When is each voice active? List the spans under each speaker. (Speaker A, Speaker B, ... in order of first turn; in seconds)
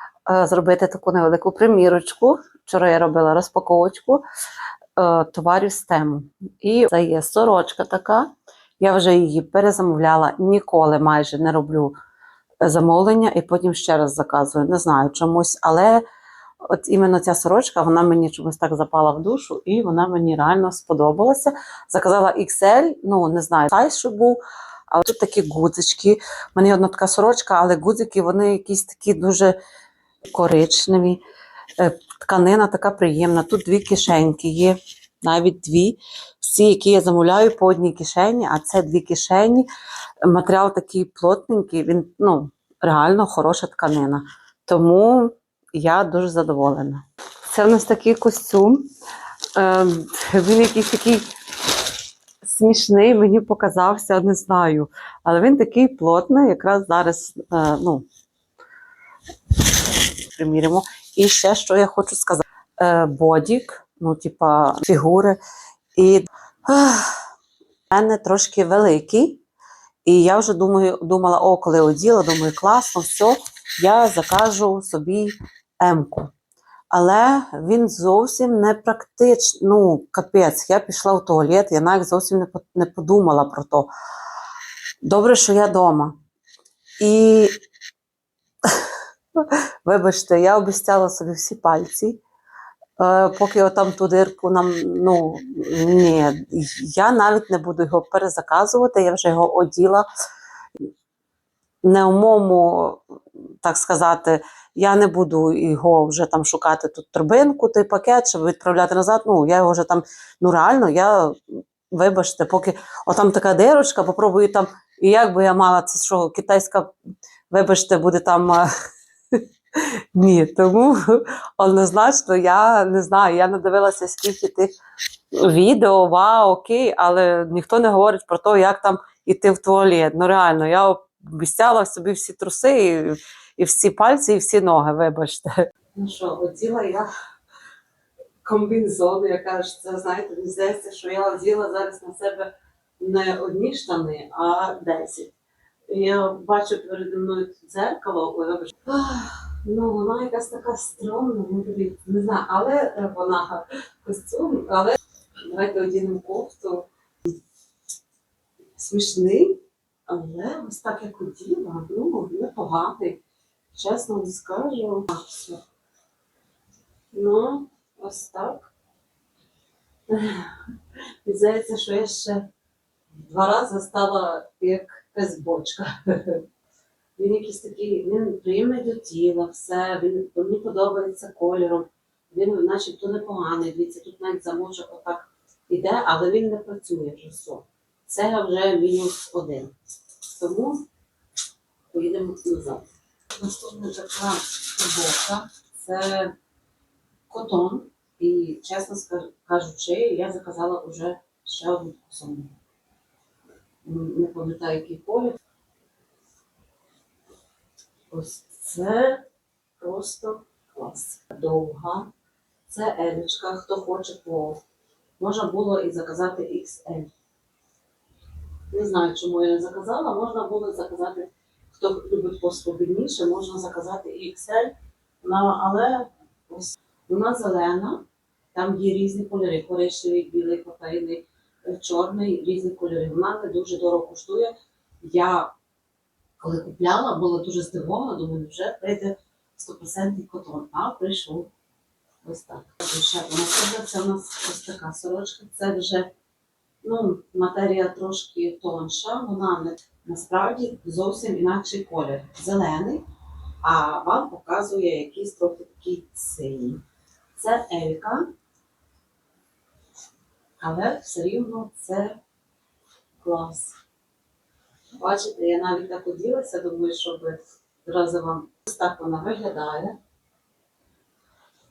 Speaker A: 0.3-4.2, 5.0-11.9, 12.6-16.0, 16.7-29.6, 30.3-31.2, 31.8-39.7, 40.2-48.9, 49.5-51.3, 52.4-58.0, 60.3-65.4, 66.0-67.2, 67.9-69.4, 70.0-76.3, 76.9-83.9, 85.0-86.2, 87.0-87.6, 88.6-92.2, 93.0-100.0, 101.8-103.0, 103.6-116.9, 117.5-118.7, 119.3-124.7, 125.3-137.1, 138.4-145.3, 145.9-156.9, 158.8-163.2, 163.7-165.6, 167.1-168.7, 170.1-170.7, 171.2-172.5, 173.1-176.4, 177.2-189.7, 190.2-190.8, 191.9-196.3, 197.3-202.5, 203.8-205.4, 208.1-209.2, 209.8-212.1, 212.7-214.6, 215.2-217.1, 218.7-228.0, 228.5-235.5, 236.4-241.5, 242.2-246.1, 246.8-253.0, 253.6-256.8, 257.3-258.3, 260.6-262.2, 263.2-263.8, 265.0-270.0